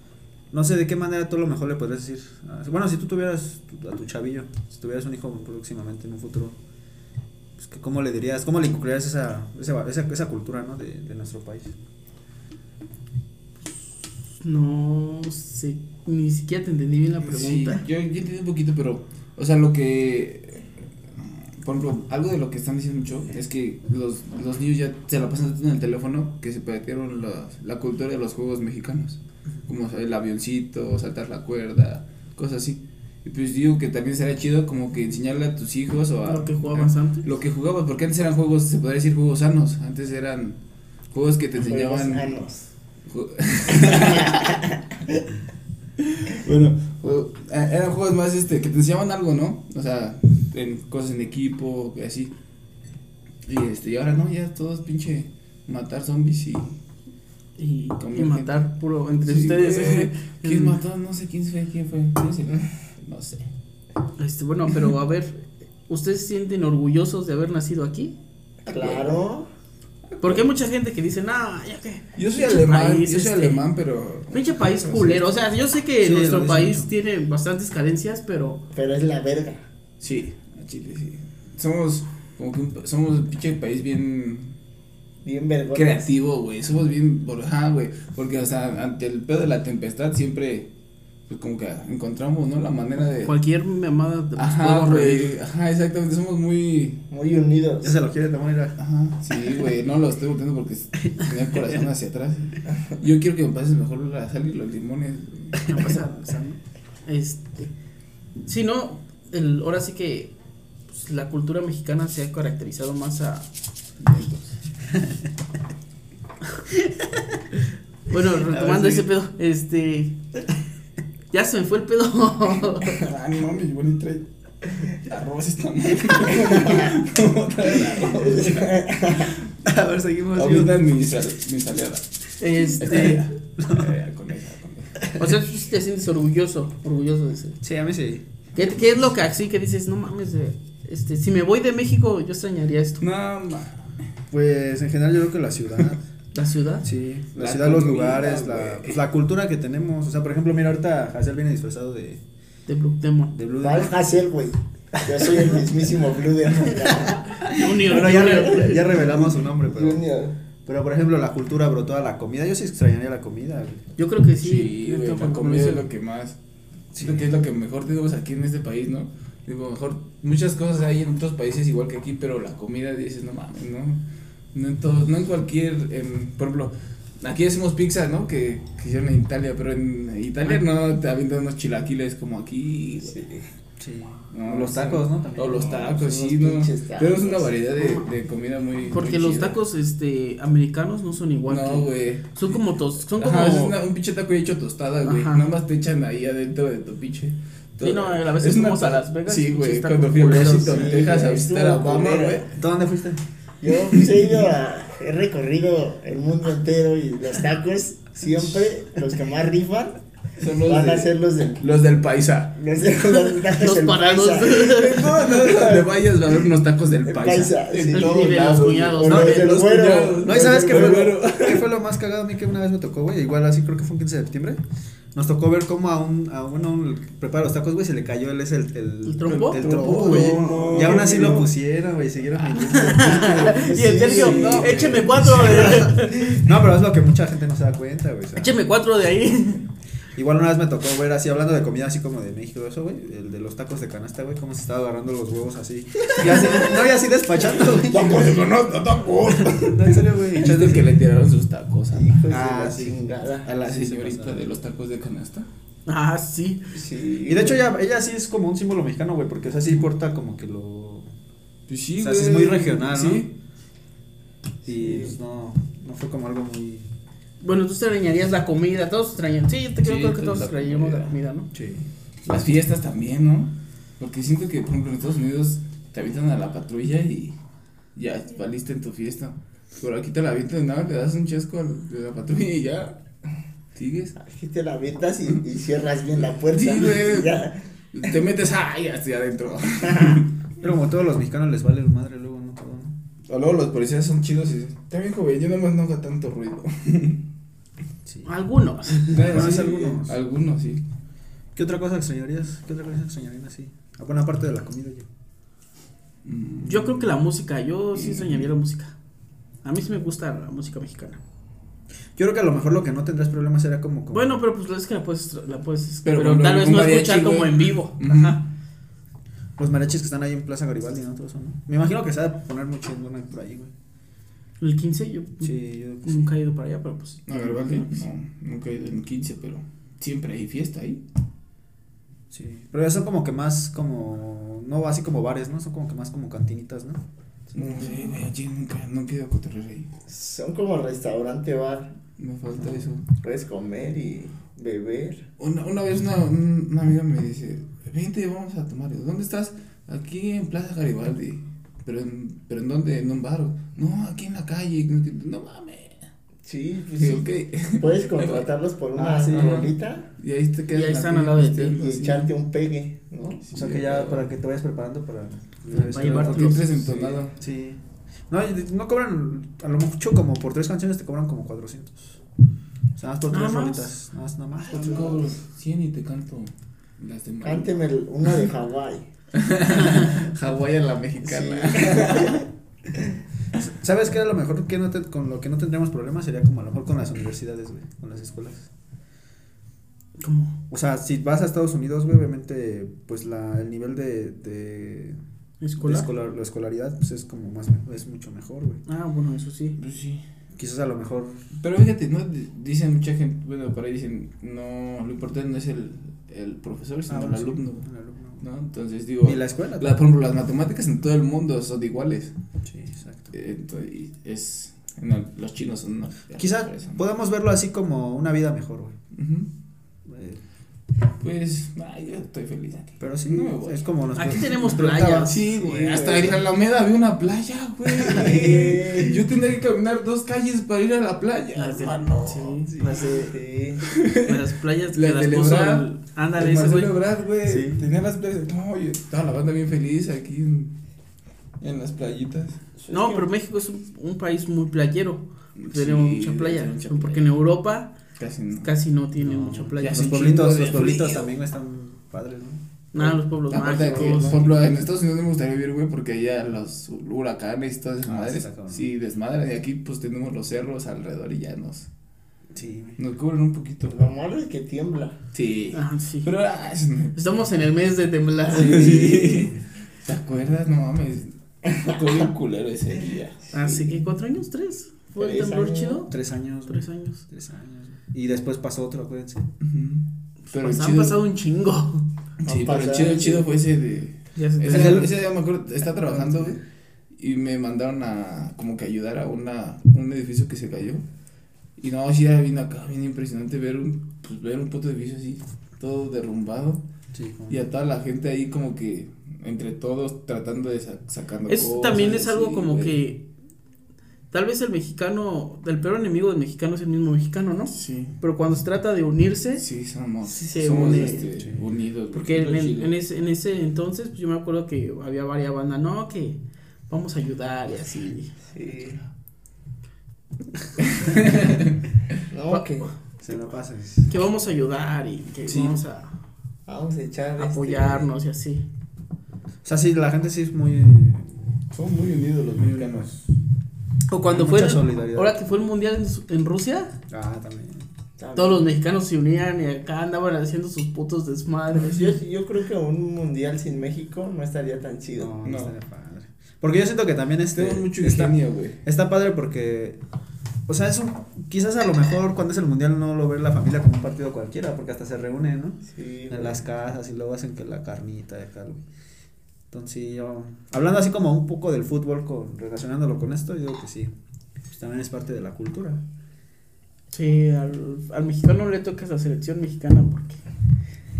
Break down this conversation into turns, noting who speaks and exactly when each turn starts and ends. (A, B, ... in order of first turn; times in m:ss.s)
0:00.5-0:06.6 A
0:07.6-0:11.8 A
0:14.4-0:17.8 B
0:17.2-0:40.6 C
0:36.3-0:37.2 B
0:41.1-0:42.4 C
0:41.6-0:42.7 D
0:43.1-0:44.6 C
0:43.7-0:44.8 D
0:46.0-0:52.3 C
0:53.5-0:56.8 C
0:57.6-1:00.8 B
0:58.0-0:58.6 C
0:59.2-1:03.5 C
1:04.2-1:08.2 B
1:08.7-1:09.5 D
1:08.7-1:09.2 C
1:10.2-1:10.4 C
1:10.2-1:13.6 B
1:12.2-1:15.2 C
1:14.3-1:18.6 B
1:16.0-1:16.9 A
1:18.7-1:19.7 D
1:20.0-1:24.6 C
1:25.2-1:26.1 D
1:25.7-1:30.7 C
1:31.3-1:33.4 C
1:33.3-1:35.3 B
1:34.4-1:37.0 C
1:37.1-1:38.0 D
1:37.8-1:38.8 A
1:38.8-1:45.7 C
1:45.7-1:47.7 B
1:48.4-1:50.3 B
1:50.9-1:53.5 B
1:54.0-1:54.5 C
1:58.1-2:00.2 B
1:58.5-1:59.1 A
2:01.3-2:03.0 B
2:03.0-2:08.8 C
2:06.5-2:06.9 D
2:08.1-2:09.3 D
2:09.6-2:10.8 A
2:10.3-2:12.1 C
2:12.4-2:13.2 B
2:12.8-2:15.1 C
2:13.6-2:13.9 A
2:15.2-2:17.6 B
2:17.6-2:18.3 A
2:18.6-2:23.0 B
2:23.0-2:23.9 C
2:24.3-2:26.0 A
2:26.3-2:26.9 B
2:26.8-2:32.2 A
2:27.4-2:29.0 C
2:32.7-2:33.3 B
2:33.3-2:34.0 A
2:33.6-2:40.4 D
2:35.1-2:35.6 A
2:37.5-2:38.9 B
2:37.7-2:40.0 A
2:40.7-2:43.8 A
2:44.0-2:45.9 B
2:44.4-2:46.4 C
2:46.9-2:47.2 A
2:47.0-3:03.2 C
3:03.0-3:03.4 D
3:03.8-3:05.8 A
3:04.3-3:09.6 C
3:05.6-3:07.5 D
3:07.8-3:08.1 B
3:08.9-3:13.8 B
3:11.5-3:12.6 C
3:13.2-3:22.5 C
3:15.0-3:15.5 B
3:17.8-3:20.9 B
3:20.4-3:22.4 D
3:22.5-3:23.2 A
3:23.6-3:30.0 D
3:24.0-3:24.4 C
3:30.4-3:32.6 C
3:30.6-3:31.7 D
3:32.6-3:36.0 D
3:33.2-3:35.2 B
3:34.9-3:41.7 C
3:37.0-3:41.2 D
3:37.9-3:39.6 B
3:39.1-3:44.6 A
3:45.1-3:58.5 A
3:49.0-3:50.0 B
3:49.3-3:51.5 C
3:50.0-3:51.4 D
3:52.7-3:56.4 B
3:52.9-3:54.7 D
3:54.0-3:55.7 C
3:58.4-3:59.7 B
4:00.2-4:08.3 A
4:06.1-4:06.8 C
4:07.6-4:12.2 C
4:07.9-4:08.4 D
4:09.5-4:11.0 A
4:11.9-4:13.5 D
4:12.3-4:14.5 A
4:13.5-4:15.5 C
4:15.9-4:16.6 B
4:16.7-4:17.6 D
4:17.2-4:21.1 A
4:21.7-4:23.3 C
4:22.0-4:23.3 A
4:24.6-4:26.9 A
4:24.8-4:25.1 D
4:27.4-4:31.5 B
4:29.8-4:31.2 C
4:31.5-4:31.9 A
4:32.2-4:37.4 C
4:38.0-4:43.0 C
4:43.8-4:44.2 C
4:44.2-4:47.6 D
4:46.2-4:47.4 C
4:47.9-4:50.3 C
4:49.9-4:50.2 D
4:50.6-4:53.0 A
4:53.3-4:57.2 C
4:58.2-4:59.3 B
4:59.1-5:00.8 C
4:59.1-5:00.2 A
5:01.6-5:05.1 A
5:06.2-5:07.1 C
5:06.6-5:09.0 B
5:07.9-5:08.5 C
5:09.6-5:11.2 B
5:12.2-5:14.4 A
5:14.1-5:18.4 B
5:16.0-5:18.4 C
5:19.6-5:23.7 A
5:24.6-5:28.1 B
5:25.4-5:26.3 A
5:27.3-5:31.0 C
5:32.3-5:38.0 A
5:37.5-5:39.9 C
5:40.1-5:42.0 D
5:42.2-5:43.1 C
5:43.2-5:45.2 D
5:45.4-5:56.1 C
5:56.4-5:57.2 D
5:57.0-5:58.5 C
5:57.8-6:00.1 D
5:59.0-5:59.7 A
5:59.3-6:02.3 C
6:00.7-6:02.2 B
6:01.8-6:03.4 D
6:03.4-6:04.3 C
6:03.5-6:12.2 A
6:05.7-6:06.7 B
6:05.7-6:07.4 C
6:13.0-6:15.3 A
6:13.3-6:13.9 B
6:14.7-6:18.4 C
6:17.4-6:19.1 D
6:19.4-6:22.4 C
6:21.2-6:22.5 D
6:23.6-6:28.7 A
6:30.2-6:30.6 B
6:30.7-6:35.2 A
6:35.6-6:36.1 B
6:35.8-6:38.8 A
6:38.9-6:39.8 B
6:39.8-6:40.2 C
6:40.6-6:41.4 A
6:41.6-6:47.9 C
6:47.1-6:48.4 A
6:48.4-6:52.3 C
6:49.2-6:49.9 A
6:52.6-6:53.3 A
6:53.3-6:57.0 C
6:56.4-6:59.0 A
6:59.1-6:59.5 C
7:00.0-7:00.4 A
7:01.2-7:04.2 C
7:03.0-7:06.4 A
7:04.2-7:05.9 B
7:05.2-7:12.6 C
7:05.8-7:06.4 D
7:08.0-7:08.5 A
7:08.0-7:09.2 D
7:11.6-7:13.3 B
7:12.7-7:13.1 A
7:12.9-7:13.8 D
7:13.8-7:14.4 C
7:14.3-7:16.9 B
7:14.9-7:20.7 C
7:17.4-7:17.8 A
7:21.6-7:22.6 C
7:22.8-7:23.3 D
7:22.9-7:27.9 B
7:25.6-7:27.3 C
7:28.2-7:28.7 C
7:28.6-7:30.2 B
7:29.2-7:32.6 A
7:29.8-7:31.3 C
7:32.9-7:34.5 B
7:33.5-7:41.9 C
7:34.0-7:34.2 D
7:38.0-7:38.9 A
7:42.5-7:43.0 A
7:43.0-7:44.1 C
7:43.9-7:45.2 D
7:45.3-7:47.2 C
7:45.7-7:46.3 B
7:47.2-7:49.5 B
7:48.5-7:53.6 C
7:48.8-7:49.6 A
7:51.7-7:52.2 D
7:53.5-7:56.1 B
7:55.2-7:56.1 D
7:56.1-7:59.5 A
7:56.7-7:57.2 B
7:59.6-8:01.2 C
8:00.5-8:02.1 B
8:02.4-8:03.5 D
8:02.4-8:06.6 C
8:04.4-8:05.1 B
8:04.7-8:05.2 A
8:05.9-8:06.6 A
8:07.2-8:11.0 C
8:11.8-8:16.8 C
8:17.1-8:17.6 A
8:17.5-8:23.0 C
8:21.5-8:23.2 B
8:24.3-8:29.6 B
8:27.7-8:28.2 C
8:29.6-8:32.9 C
8:30.2-8:31.3 B
8:31.3-8:31.6 A
8:32.1-8:38.3 B
8:38.4-8:39.0 D
8:40.9-8:41.7 C
8:42.3-8:42.9 D
8:42.5-8:42.9 B
8:43.2-8:44.1 A
8:44.1-8:46.1 B
8:45.5-8:45.8 A
8:46.7-8:48.1 D
8:47.4-8:48.6 B
8:49.6-8:51.5 A
8:51.7-8:53.2 C
8:52.6-8:53.2 A
8:54.1-8:57.0 B
8:54.3-8:55.4 A
8:57.1-8:57.9 A
8:58.2-8:58.7 D
8:58.4-9:02.1 B
9:01.8-9:05.4 D
9:05.2-9:10.0 A
9:05.4-9:05.7 C
9:07.5-9:08.8 C
9:10.7-9:18.8 A
9:15.9-9:16.6 D
9:19.7-9:24.1 A
9:24.7-9:26.0 A
9:27.1-9:30.4 B